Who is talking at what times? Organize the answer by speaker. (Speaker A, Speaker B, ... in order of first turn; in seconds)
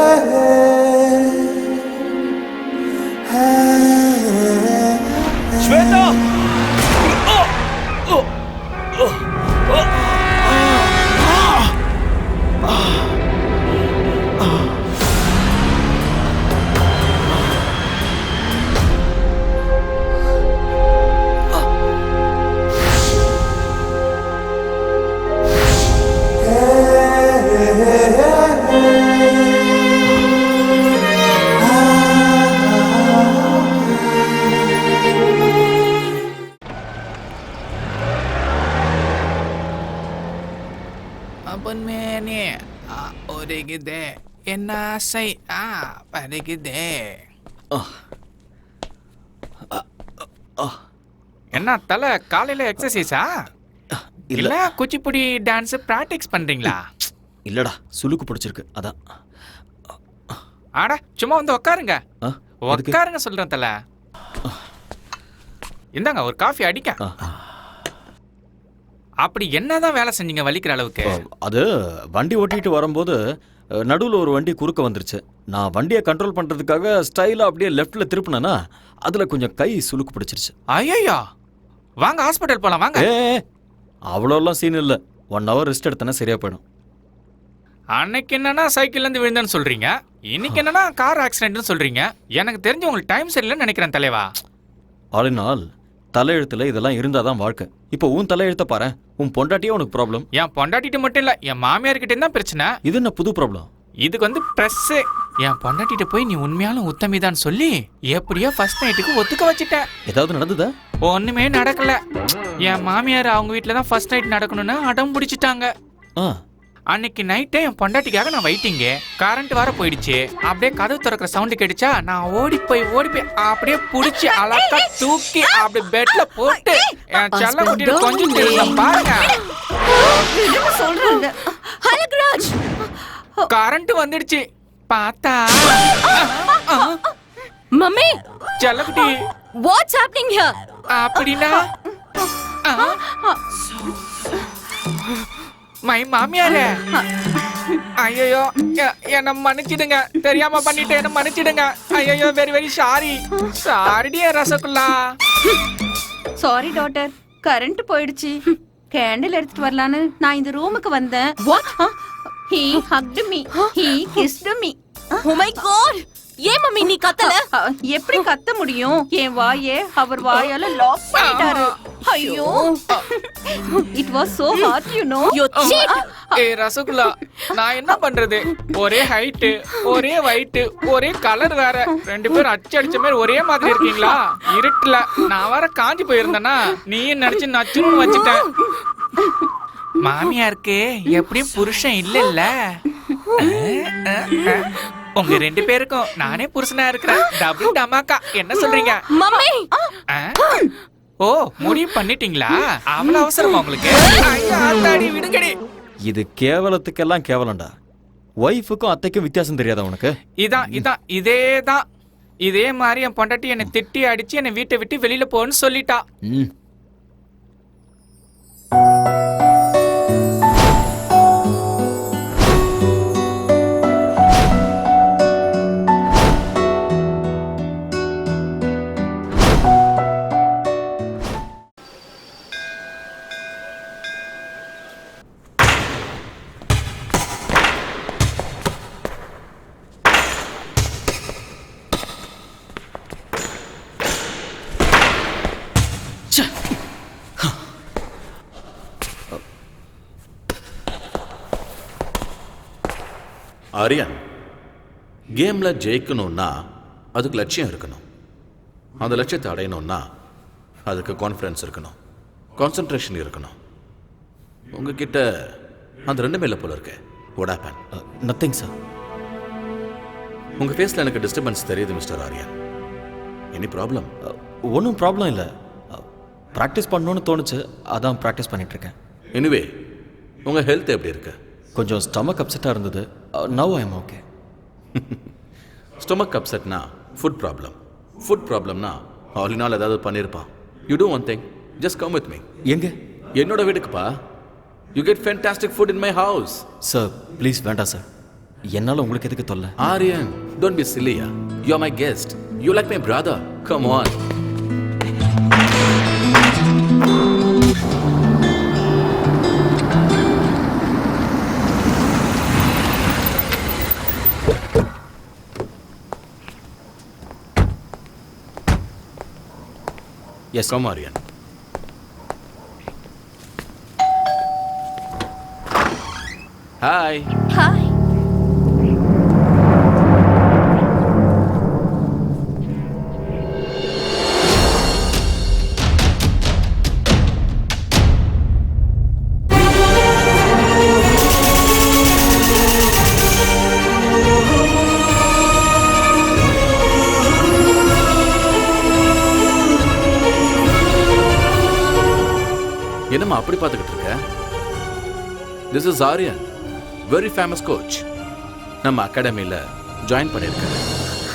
Speaker A: 5.6-6.3, 8.9-10.9, 47.7-48.0, 49.7-50.8, 53.9-54.6, 57.5-59.0, 62.2-63.0, 67.0-67.4, 71.0-73.2, 73.8-80.5, 82.9-83.4, 84.1-86.6, 95.1-95.6, 96.1-100.3, 102.8-103.7, 110.1-110.7, 206.1-207.7, 208.4-210.9, 246.3-246.7, 267.9-268.7, 274.3-278.9, 281.8-284.2, 296.8-298.0, 298.7-299.7
Speaker B: 41.5-47.2, 51.5-53.3, 54.4-56.8, 60.8-62.0, 62.7-63.7, 66.0-67.0, 69.2-71.1, 80.7-81.2, 82.0-83.1, 88.0-94.3, 100.3-102.7, 104.0-109.8, 111.0-112.0, 112.6-115.7, 116.9-129.4, 133.5-137.0, 138.6-139.1, 140.9-141.7, 142.6-143.0, 145.8-146.8, 148.0-155.1, 171.2-171.7, 175.5-188.6, 190.0-192.8, 193.4-199.1, 200.1-200.4, 201.2-205.6, 210.4-211.8, 212.4-216.0
Speaker C: 124.3-124.9, 126.3-126.9, 130.2-131.5, 156.4-165.6, 166.8-176.1, 199.3-199.8, 327.5-327.9
Speaker D: 127.3-129.4, 130.4-132.6, 137.7-138.2, 139.6-140.6, 163.5-164.3, 165.2-167.5, 170.2-170.5, 172.0-172.8, 175.3-176.1, 199.1-199.7
Speaker E: 253.8-254.2, 255.4-256.5, 257.1-258.0, 259.0-260.0, 260.9-261.9, 262.6-263.5, 264.7-265.2, 266.1-267.8, 270.6-272.5, 273.5-274.1, 279.3-279.6, 280.4-281.4, 284.9-285.2, 286.0-292.4, 293.4-294.1, 294.9-296.6, 299.8-304.1, 320.7-321.2, 326.8-327.3, 353.1-354.2, 355.7-356.5, 357.1-358.0, 358.8-360.9